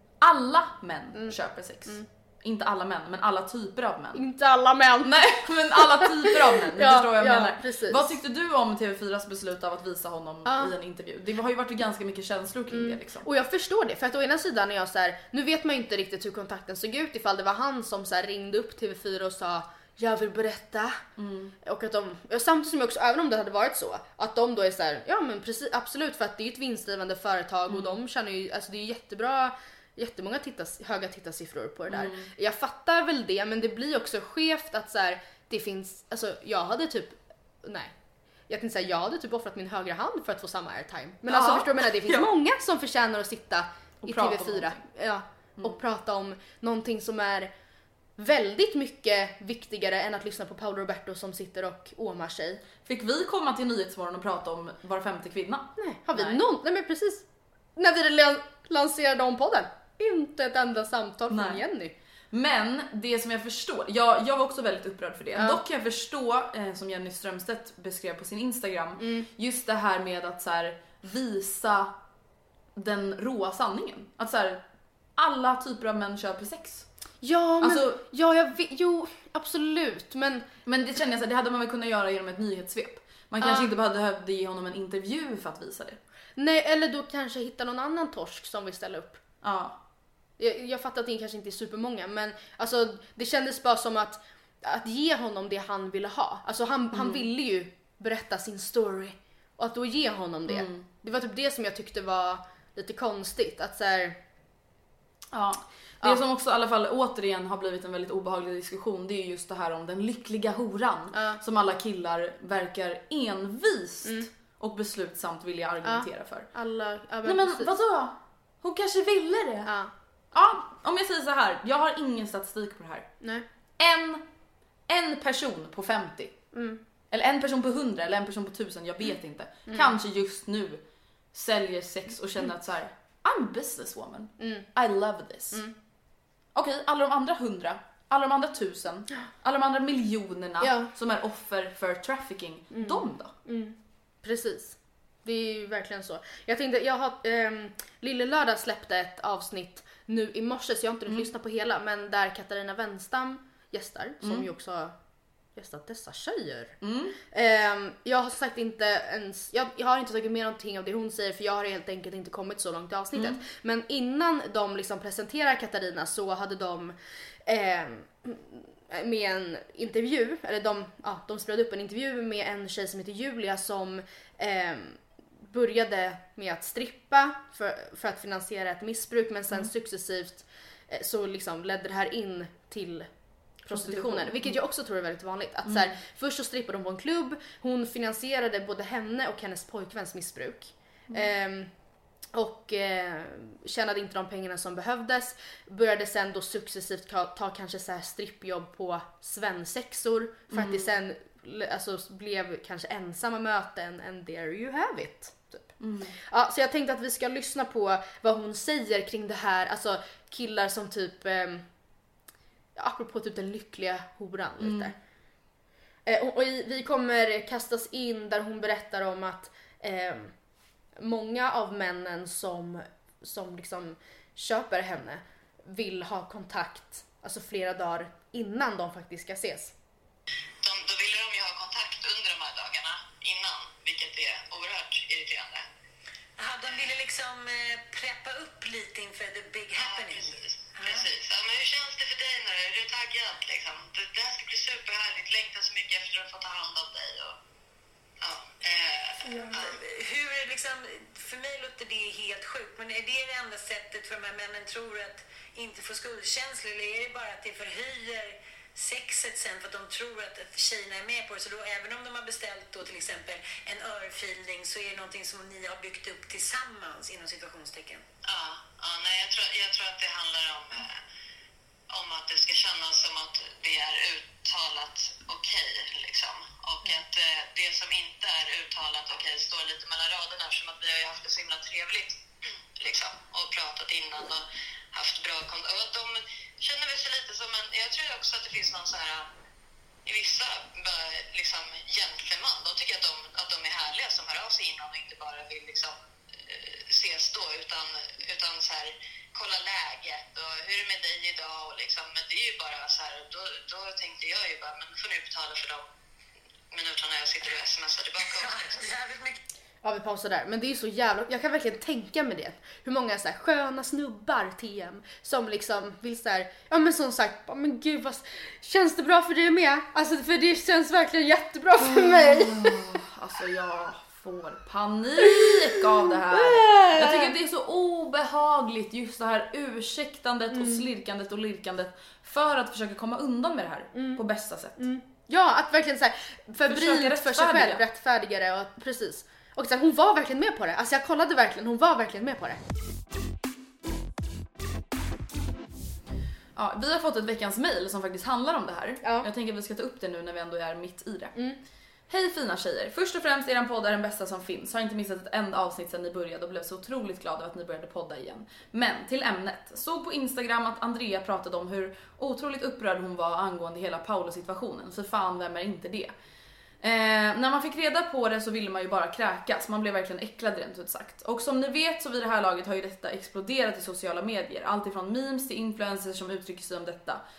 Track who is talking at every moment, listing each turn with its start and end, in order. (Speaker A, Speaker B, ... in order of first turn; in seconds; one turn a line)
Speaker A: 0.2-4.2
Speaker B: 1.1-2.0
Speaker B: 4.1-5.2
Speaker A: 5.0-13.3
Speaker B: 5.7-8.1
Speaker B: 10.4-10.7
Speaker B: 12.7-21.0
Speaker A: 21.2-21.5
Speaker B: 21.6-37.9
Speaker A: 27.7-27.9
Speaker A: 31.9-32.3
Speaker B: 38.5-47.5
Speaker A: 41.3-42.3
Speaker A: 44.0-44.8
Speaker B: 48.2-52.6
Speaker A: 52.8-56.4
Speaker B: 55.8-57.2
Speaker B: 57.8-61.9
Speaker A: 61.3-61.6
Speaker A: 62.3-71.9
Speaker B: 69.0-69.3
Speaker A: 72.8-74.6
Speaker A: 75.2-76.9
Speaker B: 77.2-80.4
Speaker A: 77.6-78.0
Speaker A: 80.7-86.0
Speaker B: 83.4-83.7
Speaker B: 86.4-89.2
Speaker A: 89.4-89.8
Speaker B: 90.4-104.2
Speaker A: 96.9-97.2
Speaker A: 100.5-100.9
Speaker A: 105.3-116.5
Speaker B: 111.1-111.4
Speaker B: 115.8-117.7
Speaker A: 117.2-119.7
Speaker B: 119.6-119.9
Speaker A: 120.3-123.1
Speaker A: 123.8-124.2
Speaker A: 124.9-126.3
Speaker B: 126.5-126.8
Speaker A: 127.1-130.8
Speaker B: 129.7-129.9
Speaker A: 131.3-135.6
Speaker B: 134.4-134.7
Speaker A: 136.5-143.3
Speaker B: 140.6-140.9
Speaker B: 142.7-154.9
Speaker A: 154.2-154.5
Speaker B: 155.6-156.8
Speaker A: 156.8-157.2
Speaker B: 157.3-166.9
Speaker A: 163.2-163.4
Speaker B: 167.4-183.1
Speaker B: 183.6-191.7
Speaker A: 183.7-184.6
Speaker A: 185.7-186.0
Speaker B: 192.3-205.7
Speaker A: 200.5-200.9
Speaker A: 205.8-206.2
Speaker B: 206.3-211.7
Speaker B: 212.8-214.9
Speaker A: 214.6-214.9
Speaker B: 216.1-220.3
Speaker B: 221.0-229.7
Speaker C: 230.6-235.6
Speaker D: 236.4-241.1
Speaker C: 239.8-247.3
Speaker C: 248.2-249.8
Speaker B: 249.2-249.5
Speaker D: 249.5-268.0
Speaker C: 268.2-271.0
Speaker C: 271.9-282.2
Speaker C: 282.8-289.3
Speaker C: 290.1-305.8
Speaker C: 306.7-308.9
Speaker D: 308.3-309.4
Speaker B: 309.8-322.7
Speaker A: 321.8-334.8
Speaker B: 325.2-325.5
Speaker B: 326.3-327.3
Speaker B: 330.5-330.8
Speaker B: 333.9-334.2
Speaker B: 334.8-342.6
Speaker A: 336.6-337.8
Speaker A: 346.6-351.4
Speaker A: 352.1-366.1
Speaker A: 366.8-377.2